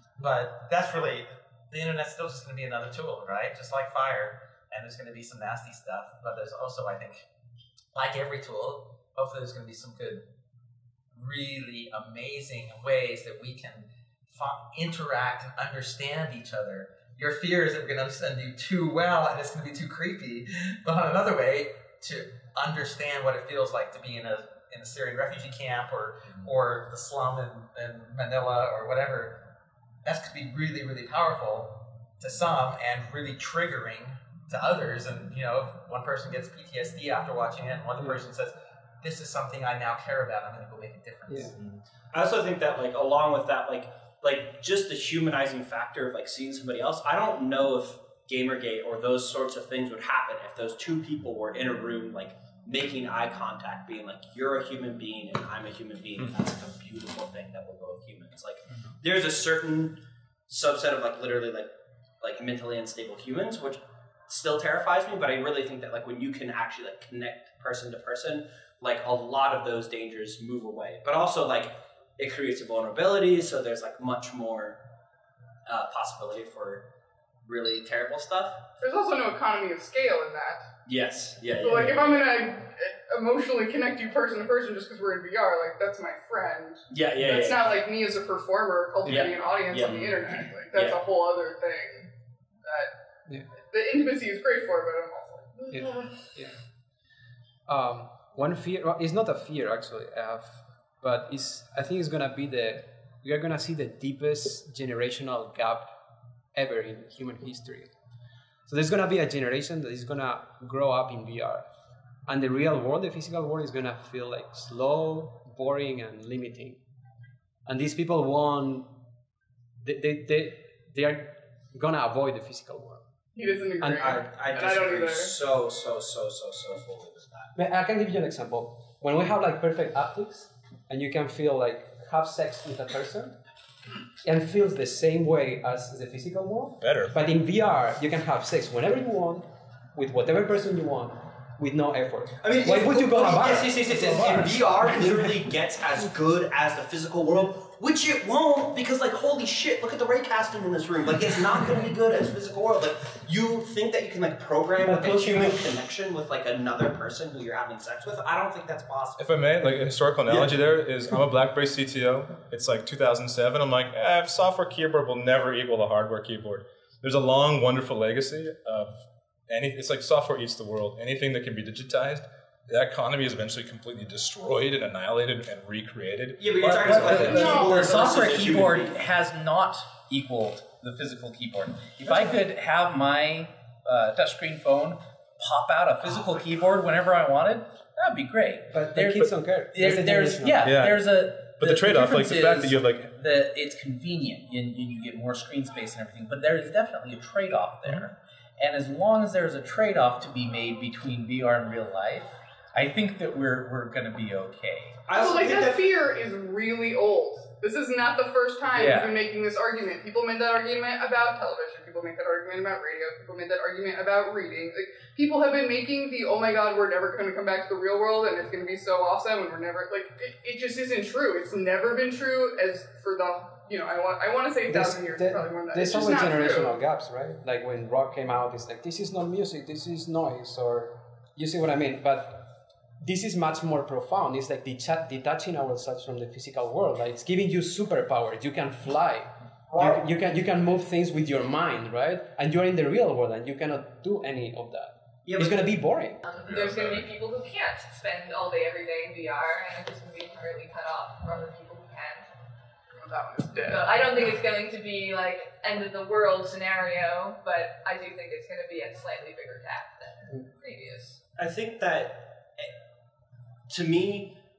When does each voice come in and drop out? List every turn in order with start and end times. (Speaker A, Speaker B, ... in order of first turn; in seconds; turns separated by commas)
Speaker A: 0.2-7.2, Speaker A: 7.9-10.2, Speaker A: 11.2-29.5, Speaker A: 30.0-41.5, Speaker B: 42.1-61.7, Speaker B: 62.2-74.8, Speaker B: 75.7-76.8, Speaker B: 77.5-78.6, Speaker C: 78.8-80.6, Speaker B: 80.9-82.2, Speaker C: 81.5-92.1, Speaker B: 86.9-87.8, Speaker B: 89.1-91.0, Speaker C: 92.6-92.9, Speaker C: 93.7-96.2, Speaker D: 95.7-96.5, Speaker D: 97.7-105.9, Speaker D: 106.5-107.9, Speaker D: 108.7-111.7, Speaker D: 112.3-116.8, Speaker D: 117.7-119.0, Speaker D: 119.8-123.0, Speaker C: 123.3-125.3, Speaker D: 123.8-124.2, Speaker B: 124.0-127.5, Speaker D: 127.5-133.4, Speaker D: 134.2-145.3, Speaker E: 136.8-137.2, Speaker B: 142.4-159.2, Speaker E: 159.2-176.5, Speaker B: 160.3-160.5, Speaker B: 176.4-179.0, Speaker F: 176.5-205.0, Speaker C: 177.4-178.2, Speaker D: 188.7-190.7, Speaker E: 190.6-193.1, Speaker B: 205.1-205.9, Speaker C: 205.1-226.7, Speaker F: 208.7-209.1, Speaker D: 224.7-232.5, Speaker D: 233.0-246.2, Speaker B: 239.7-240.0, Speaker B: 245.2-245.7, Speaker G: 246.2-252.3, Speaker C: 252.9-254.0, Speaker G: 253.6-261.2, Speaker B: 261.4-262.7, Speaker B: 263.7-264.4